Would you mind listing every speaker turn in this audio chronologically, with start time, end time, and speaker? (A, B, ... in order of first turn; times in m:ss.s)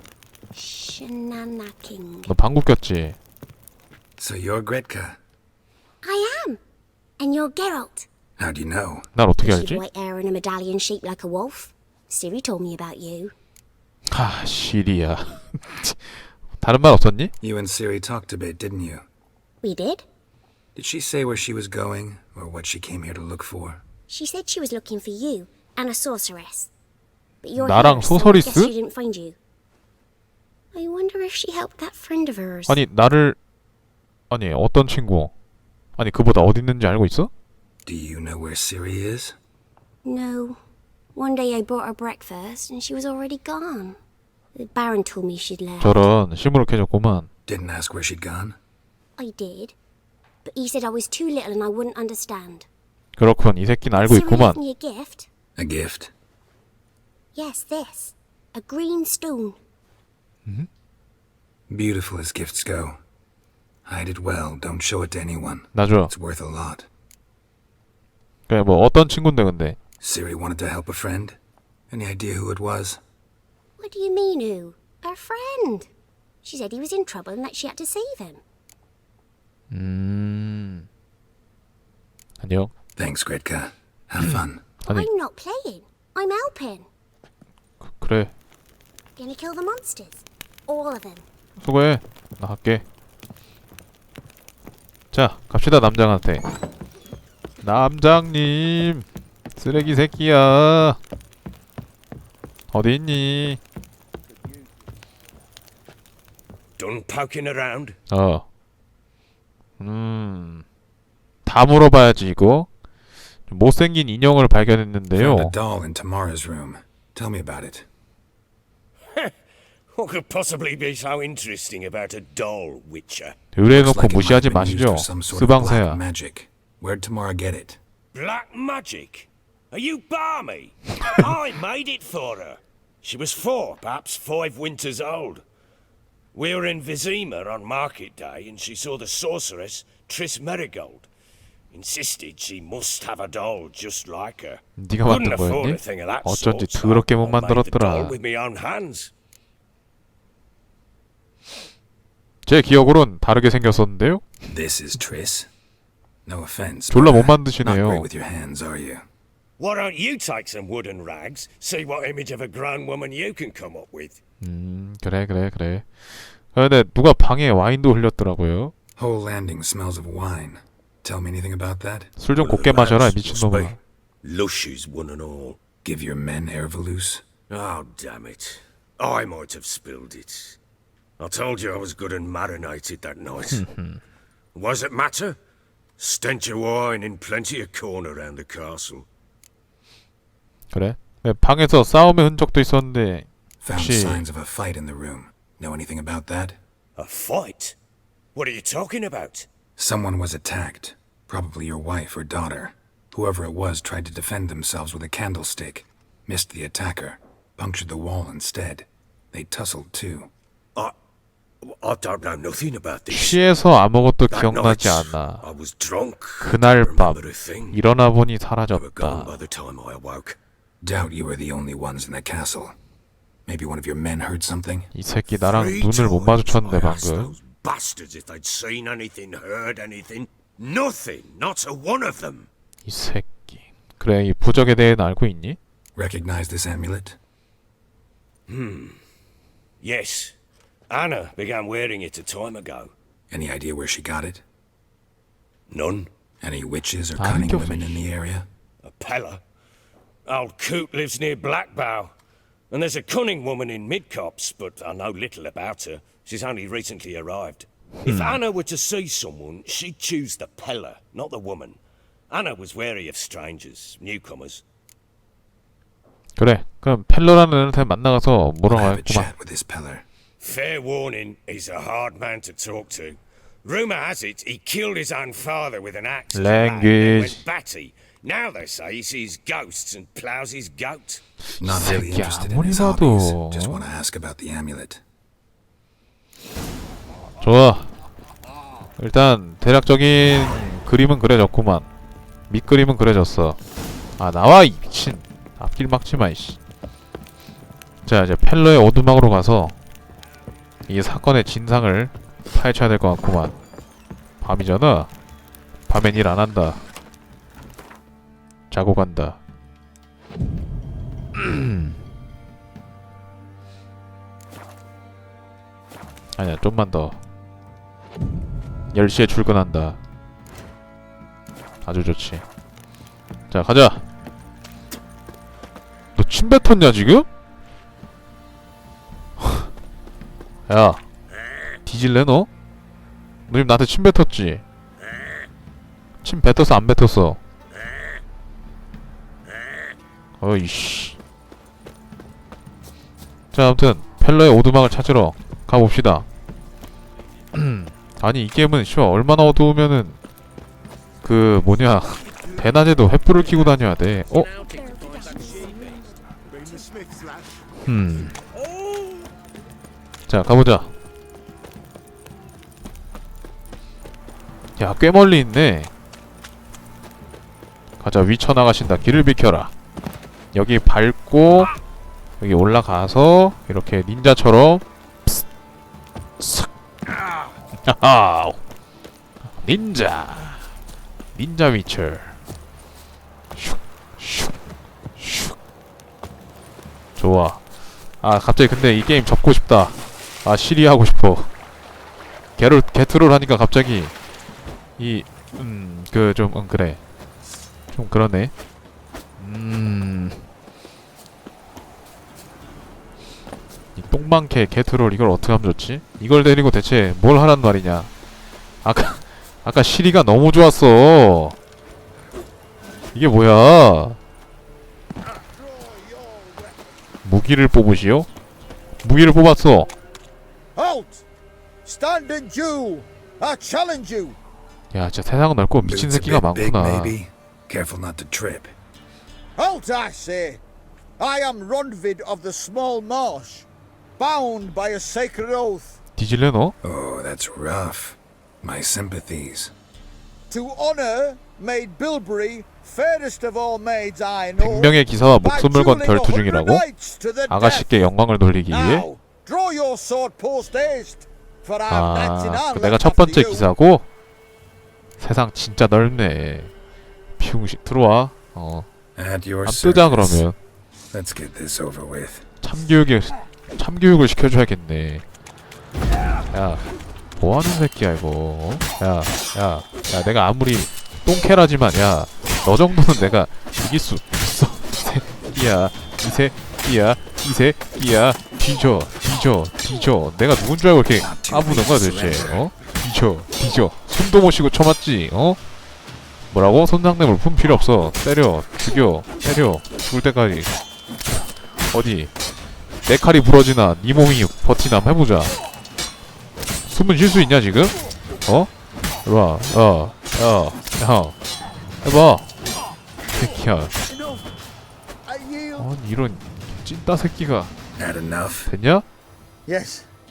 0:00.5-0:02.3 A
0:02.2-0:03.2 B
0:04.2-0:05.2 C
0:06.0-0:06.6 A
0:07.2-0:08.1 A
0:08.4-0:09.1 C
0:09.1-0:09.8 B
0:09.4-0:13.3 A
0:14.1-0:17.3 B
0:17.4-0:19.0 C
0:19.6-0:20.0 A
0:20.8-0:23.8 C
0:24.1-0:26.7 A
0:27.4-0:29.4 A
0:27.6-0:28.7 B
0:30.7-0:32.8 A
0:32.7-0:33.4 B
0:34.3-0:35.3 B
0:36.0-0:37.3 B
0:37.8-0:39.4 C
0:40.0-0:40.6 A
0:41.1-0:44.0 A
0:44.6-0:46.1 A
0:45.8-0:47.3 B
0:47.5-0:48.6 C
0:49.2-0:49.8 A
0:50.4-0:52.7 A
0:53.2-0:54.6 B
0:54.0-0:55.3 A
0:55.6-0:56.1 C
0:57.3-0:59.6 A
1:01.7-1:03.0 C
1:03.8-1:06.9 C
1:05.7-1:06.1 B
1:08.5-1:09.8 B
1:10.0-1:11.4 C
1:11.9-1:13.0 C
1:13.8-1:15.9 A
1:16.4-1:18.4 A
1:19.7-1:20.9 B
1:22.4-1:22.7 B
1:23.0-1:24.7 C
1:24.8-1:26.9 A
1:27.8-1:28.3 B
1:29.2-1:31.2 A
1:31.6-1:32.8 B
1:35.1-1:36.4 B
1:37.6-1:41.0 B
1:42.7-1:43.6 B
1:46.8-1:48.0 D
1:48.1-1:48.4 B
1:49.8-1:50.6 B
1:51.4-1:52.7 B
1:53.5-1:55.5 B
1:55.1-1:57.9 C
1:59.1-1:59.3 D
1:59.9-2:03.4 D
2:03.5-2:06.0 B
2:03.7-2:07.8 C
2:08.1-2:15.4 D
2:16.3-2:21.1 D
2:21.7-2:29.1 D
2:24.8-2:28.2 B
2:32.4-2:34.2 B
2:34.5-2:35.5 C
2:36.2-2:39.0 C
2:36.9-2:38.1 B
2:39.6-2:44.2 D
2:44.4-2:48.7 B
2:49.0-2:52.1 C
2:52.2-2:53.8 B
2:52.4-2:55.6 D
2:55.8-2:57.2 C
2:57.5-3:00.6 D
3:01.2-3:03.6 D
3:03.5-3:04.0 B
3:04.5-3:05.4 D
3:06.0-3:09.1 D
3:10.7-3:14.2 B
3:13.6-3:16.6 C
3:17.0-3:17.8 D
3:18.3-3:19.5 D
3:19.8-3:30.3 C
3:31.6-3:33.4 D
3:33.1-3:35.4 B
3:34.3-3:37.8 D
3:36.4-3:37.2 B
3:37.7-3:39.4 B
3:38.7-3:40.4 D
3:40.8-3:42.8 C
3:43.4-3:44.9 C
3:44.9-3:47.4 B
3:45.3-3:52.5 D
3:52.8-3:55.6 B
3:56.0-3:57.2 C
3:58.5-3:59.0 D
3:59.8-4:00.3 D
4:00.9-4:02.9 D
4:03.3-4:04.4 C
4:05.7-4:06.1 D
4:06.4-4:08.5 C
4:07.2-4:08.0 B
4:08.8-4:09.4 D
4:10.2-4:12.1 D
4:12.7-4:21.8 D
4:18.0-4:18.4 B
4:22.3-4:24.6 D
4:26.4-4:29.3 B
4:28.6-4:30.0 C
4:30.4-4:41.2 D
4:36.3-4:37.4 B
4:41.5-4:43.8 B
4:41.6-4:45.0 C
4:47.4-4:47.9 B
4:49.0-4:51.9 B
4:52.5-4:53.6 B
4:54.2-4:56.6 B
4:58.0-4:59.8 B
5:00.9-5:03.5 B
5:04.4-5:05.1 B
5:05.9-5:06.8 B
5:08.7-5:09.4 B
5:11.3-5:12.0 B
5:16.4-5:17.2 B
5:18.9-5:20.0 B
5:21.8-5:22.4 B
5:23.5-5:24.0 B
5:26.2-5:27.3 B
5:29.4-5:29.7 B
5:30.7-5:31.0 B
5:31.3-5:31.8 D
5:31.8-5:32.5 B
5:33.5-5:34.6 B
5:35.0-5:35.5 D
5:36.2-5:37.4 B
5:37.7-5:38.2 D
5:39.4-5:40.0 D
5:40.4-5:41.2 B
5:43.5-5:46.2 B
5:47.5-5:50.2 B
5:51.2-5:54.5 B
5:54.6-5:56.4 A
5:56.7-5:57.5 E
5:57.8-5:58.3 B
6:00.3-6:00.9 B
6:04.8-6:05.9 B
6:08.0-6:09.7 B
6:10.5-6:11.7 B
6:12.4-6:15.4 B
6:16.4-6:16.7 B
6:17.0-6:17.6 D
6:17.8-6:18.6 B
6:19.5-6:20.7 B
6:21.3-6:22.4 B
6:23.5-6:24.5 B
6:25.2-6:25.6 B
6:27.2-6:27.6 B
6:28.2-6:31.5 B
6:32.6-6:34.1 B
6:35.0-6:37.0 B
6:37.9-6:38.5 B
6:39.4-6:40.4 B
6:44.0-6:48.1 B
6:48.8-6:51.6 B
6:53.1-6:54.2 B
6:55.2-6:56.8 E
6:57.2-6:58.3 B
6:59.0-6:59.9 B
7:00.8-7:01.2 E
7:01.8-7:04.4 E
7:04.9-7:07.2 B
7:05.8-7:08.7 C
7:09.6-7:10.6 E
7:11.2-7:16.0 E
7:16.2-7:16.7 B
7:16.8-7:19.7 C
7:20.5-7:28.0 E
7:24.6-7:26.8 B
7:27.5-7:29.0 B
7:28.7-7:33.7 E
7:31.9-7:34.1 B
7:35.2-7:36.7 B
7:37.4-7:38.9 B
7:39.1-7:40.5 C
7:39.6-7:40.6 B
7:41.1-7:42.4 C
7:42.6-7:45.2 B
7:46.5-7:46.8 B
7:47.4-8:05.6 B
8:01.1-8:02.7 C
8:06.5-8:10.7 B
8:11.3-8:12.3 B
8:13.0-8:15.5 B
8:16.8-8:18.7 B
8:19.2-8:21.4 B
8:22.0-8:22.5 B
8:23.3-8:23.9 B
8:24.1-8:24.4 E
8:25.2-8:25.9 E
8:25.8-8:27.7 B
8:28.0-8:28.7 C
8:28.7-8:29.0 B
8:29.7-8:30.1 E